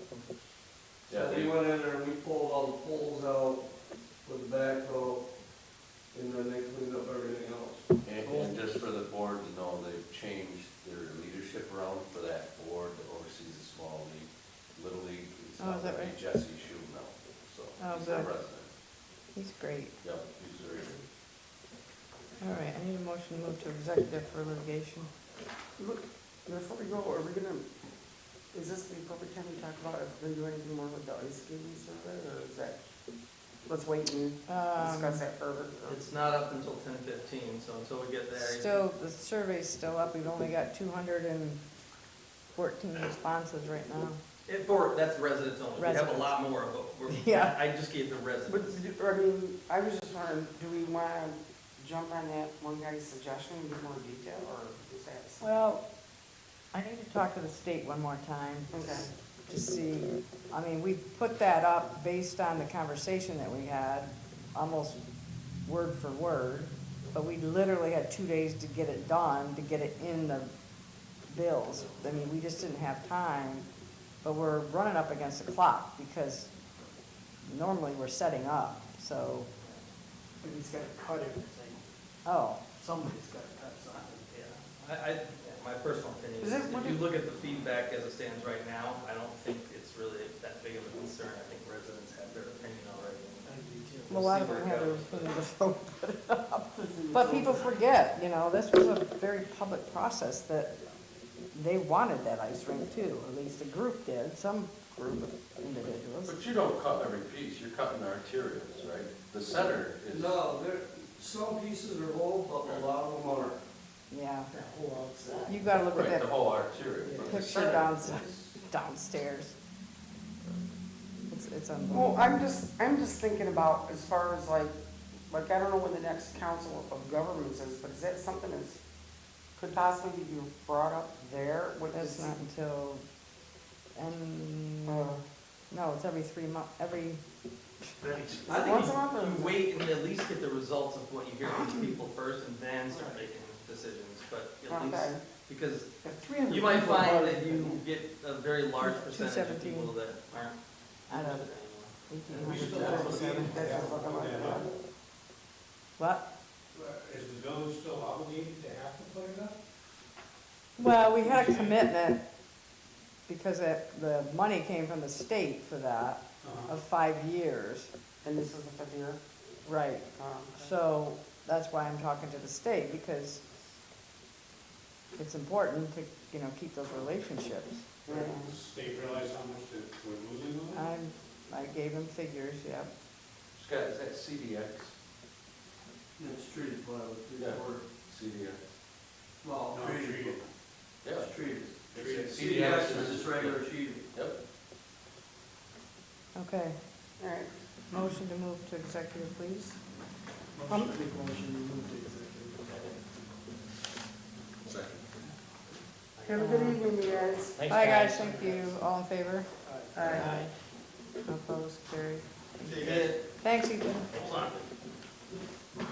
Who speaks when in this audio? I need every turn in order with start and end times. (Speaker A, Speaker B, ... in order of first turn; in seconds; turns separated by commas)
Speaker A: 1.1-1.6, Speaker B: 1.1-3.7, Speaker B: 4.2-5.3, Speaker B: 6.1-8.5, Speaker A: 8.0-18.7, Speaker C: 15.6-16.1, Speaker C: 17.8-18.3, Speaker C: 19.3-19.9, Speaker A: 20.0-21.0, Speaker C: 22.4-25.1, Speaker D: 25.8-27.7, Speaker D: 28.5-32.8, Speaker D: 33.7-36.0, Speaker C: 34.5-35.2, Speaker E: 35.9-38.8, Speaker C: 38.3-41.6, Speaker C: 42.5-44.2, Speaker E: 44.5-48.8, Speaker C: 45.8-46.3, Speaker C: 47.1-47.5, Speaker D: 48.5-55.5, Speaker C: 55.4-55.8, Speaker C: 56.7-65.0, Speaker D: 58.7-59.1, Speaker C: 65.7-70.5, Speaker C: 71.3-73.7, Speaker C: 74.2-76.5, Speaker C: 77.4-79.5, Speaker F: 80.4-81.9, Speaker C: 82.2-82.6, Speaker F: 82.8-84.5, Speaker E: 84.4-93.5, Speaker D: 86.4-87.0, Speaker F: 93.4-94.3, Speaker C: 94.1-100.7, Speaker E: 94.1-95.4, Speaker D: 96.7-97.7, Speaker C: 101.5-106.4, Speaker A: 106.2-110.4, Speaker B: 110.1-113.6, Speaker C: 114.1-114.5, Speaker F: 114.5-115.6, Speaker C: 115.5-116.3, Speaker A: 115.9-118.5, Speaker F: 117.0-117.5, Speaker C: 117.2-119.5, Speaker C: 121.3-122.3, Speaker D: 121.9-124.7, Speaker D: 125.3-128.8, Speaker D: 129.6-132.4, Speaker C: 131.9-133.0, Speaker C: 133.9-135.1, Speaker D: 134.8-135.2, Speaker C: 135.7-137.2, Speaker A: 138.0-138.5, Speaker D: 138.4-139.6, Speaker E: 138.5-145.9, Speaker D: 142.9-143.2, Speaker D: 144.7-145.2, Speaker D: 146.1-147.7, Speaker E: 146.5-150.6, Speaker F: 146.5-146.8, Speaker C: 148.8-149.9, Speaker E: 151.1-153.0, Speaker C: 151.1-151.5, Speaker C: 152.1-153.9, Speaker G: 152.4-154.7, Speaker D: 152.7-154.7, Speaker C: 156.0-156.2, Speaker G: 156.7-159.6, Speaker C: 160.8-162.2, Speaker G: 161.2-161.7, Speaker C: 163.3-167.9, Speaker G: 166.4-166.7, Speaker D: 168.2-169.2, Speaker C: 169.6-173.4, Speaker D: 170.2-170.6, Speaker C: 175.2-177.8, Speaker D: 178.1-178.5, Speaker G: 178.1-180.8, Speaker C: 180.7-182.9, Speaker A: 183.6-184.9, Speaker B: 186.2-187.8, Speaker A: 187.4-188.6, Speaker B: 189.4-190.4, Speaker G: 189.7-190.4, Speaker A: 191.0-191.3, Speaker B: 191.1-194.0, Speaker A: 191.9-194.4, Speaker G: 191.9-192.3, Speaker C: 196.3-196.8, Speaker D: 197.2-197.5, Speaker C: 197.9-199.8, Speaker F: 200.6-202.9, Speaker C: 200.7-201.0, Speaker D: 206.2-207.6, Speaker C: 206.3-206.8, Speaker C: 207.7-210.5, Speaker F: 208.3-208.6, Speaker F: 209.6-210.3, Speaker D: 209.9-210.3, Speaker C: 211.2-214.2, Speaker E: 212.6-213.2, Speaker E: 214.1-214.6